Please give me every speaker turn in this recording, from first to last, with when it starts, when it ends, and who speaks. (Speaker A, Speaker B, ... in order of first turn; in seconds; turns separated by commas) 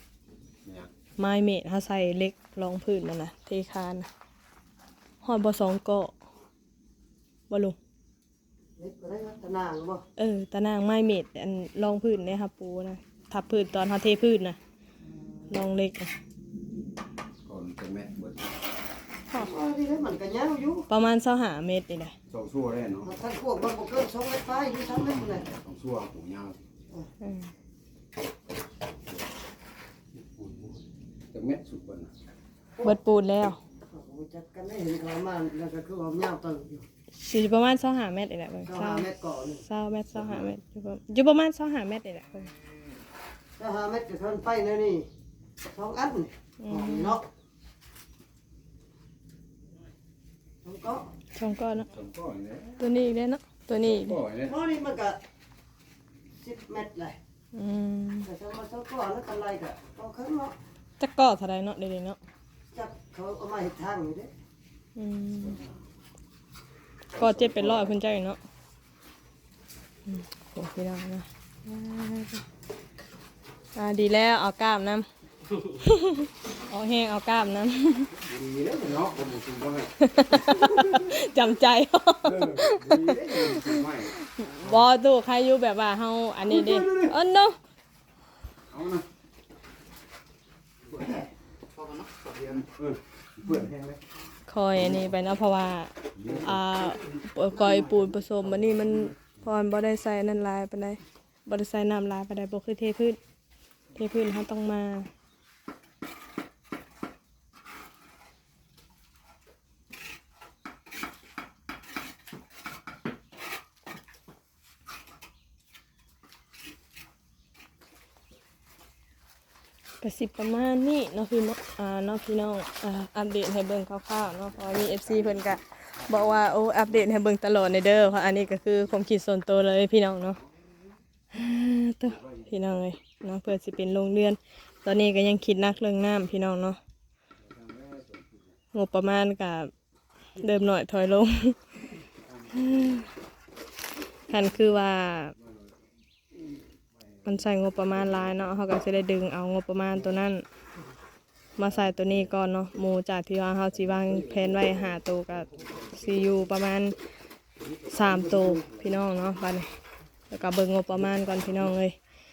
Speaker A: 0.6-0.9, Speaker B: 1.2-4.1, Speaker B: 5.2-6.1, Speaker B: 7.5-7.8, Speaker C: 8.8-10.0, Speaker B: 10.2-14.6, Speaker B: 15.5-16.1, Speaker A: 17.4-18.5, Speaker C: 19.3-20.9, Speaker B: 20.9-22.1, Speaker A: 22.3-23.1, Speaker C: 23.0-25.5, Speaker A: 25.5-26.6, Speaker B: 27.2-27.5, Speaker A: 30.1-32.1, Speaker B: 32.8-33.6, Speaker C: 33.9-36.9, Speaker B: 37.1-42.5, Speaker C: 38.6-39.6, Speaker A: 40.1-40.5, Speaker C: 43.6-45.1, Speaker C: 45.7-47.2, Speaker B: 46.6-47.2, Speaker C: 50.6-51.1, Speaker B: 51.3-51.9, Speaker A: 51.9-52.8, Speaker B: 52.8-54.2, Speaker A: 53.8-54.5, Speaker C: 54.4-55.2, Speaker C: 56.3-57.2, Speaker B: 57.5-58.3, Speaker C: 58.2-60.5, Speaker B: 61.0-62.2, Speaker C: 62.7-64.3, Speaker B: 65.0-65.6, Speaker A: 65.4-65.7, Speaker B: 67.1-68.4, Speaker A: 67.2-67.9, Speaker B: 70.1-72.4, Speaker B: 73.8-75.0, Speaker B: 75.7-78.1, Speaker A: 78.1-81.2, Speaker B: 80.0-87.6, Speaker A: 82.2-84.9, Speaker A: 86.5-87.2, Speaker A: 88.7-89.0, Speaker A: 92.5-94.0, Speaker B: 94.5-103.2, Speaker A: 96.1-96.6, Speaker B: 103.9-105.1, Speaker B: 120.0-130.4, Speaker A: 124.5-125.2, Speaker B: 131.3-136.8, Speaker A: 132.2-132.4, Speaker A: 137.4-138.4, Speaker B: 138.7-139.7, Speaker B: 140.4-141.6, Speaker A: 142.2-143.0, Speaker B: 142.5-143.0, Speaker B: 144.3-145.3, Speaker B: 147.2-150.4, Speaker B: 151.6-156.9, Speaker A: 153.7-154.8, Speaker A: 155.4-156.4, Speaker A: 157.6-158.8, Speaker B: 157.9-159.7, Speaker B: 160.3-161.9